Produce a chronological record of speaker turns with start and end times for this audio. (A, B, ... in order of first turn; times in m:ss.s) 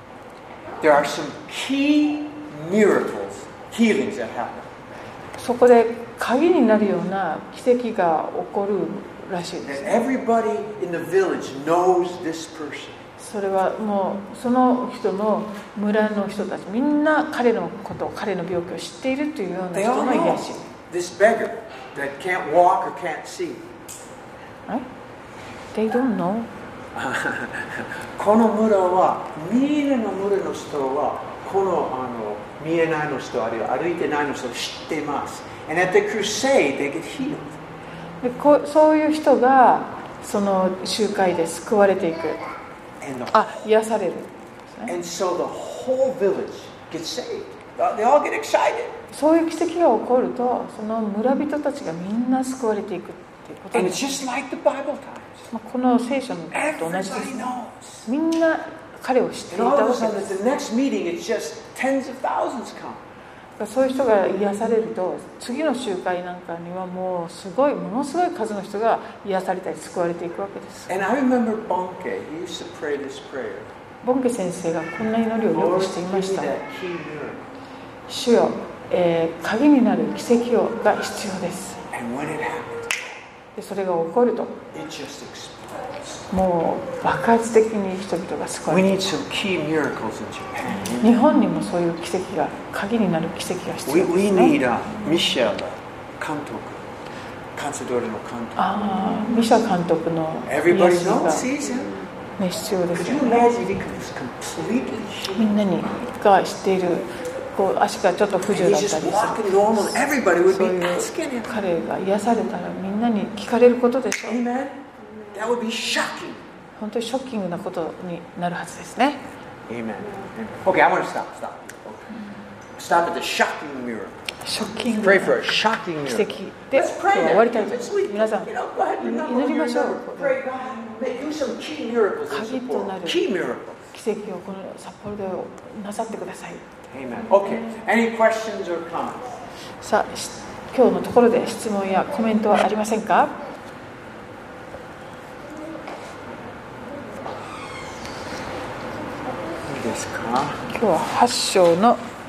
0:00.8-0:04.7 A
0:05.4-0:10.0 B
0:09.6-0:13.0 A
0:13.2-0:20.7 B
0:19.7-0:23.7 A
0:25.7-0:26.5 B
0:26.9-0:37.6 A
0:38.2-0:42.4 B
0:43.0-0:43.7 A
0:43.3-0:44.9 B
0:44.8-0:49.0 A
0:49.1-0:54.1 B
0:53.7-0:55.5 A
0:55.5-0:57.5 B
0:56.5-0:58.0 A
0:58.0-1:00.4 B
0:59.5-1:03.0 A
1:03.6-1:10.9 B
1:10.9-1:13.7 A
1:14.0-1:16.5 B
1:15.5-1:17.4 A
1:18.1-1:21.8 B
1:21.9-1:22.9 A
1:23.5-1:24.6 B
1:24.7-1:26.3 A
1:26.3-1:29.0 B
1:28.7-1:31.2 A
1:30.8-1:34.6 B
1:33.8-1:36.8 A
1:37.6-1:38.6 A
1:38.6-1:41.5 B
1:40.4-1:42.0 A
1:42.4-1:43.5 B
1:42.9-1:45.5 A
1:45.3-1:54.4 B
1:48.5-1:51.6 A
1:54.2-1:54.8 A
1:55.3-1:56.4 A
1:56.8-1:59.2 B
1:59.7-2:02.2 A
2:02.8-2:04.2 A
2:04.4-2:10.4 B
2:05.0-2:13.9 A
2:12.3-2:13.2 B
2:13.9-2:16.7 B
2:16.9-2:19.4 A
2:19.8-2:23.4 B
2:29.7-2:30.6 A
2:30.7-2:32.0 B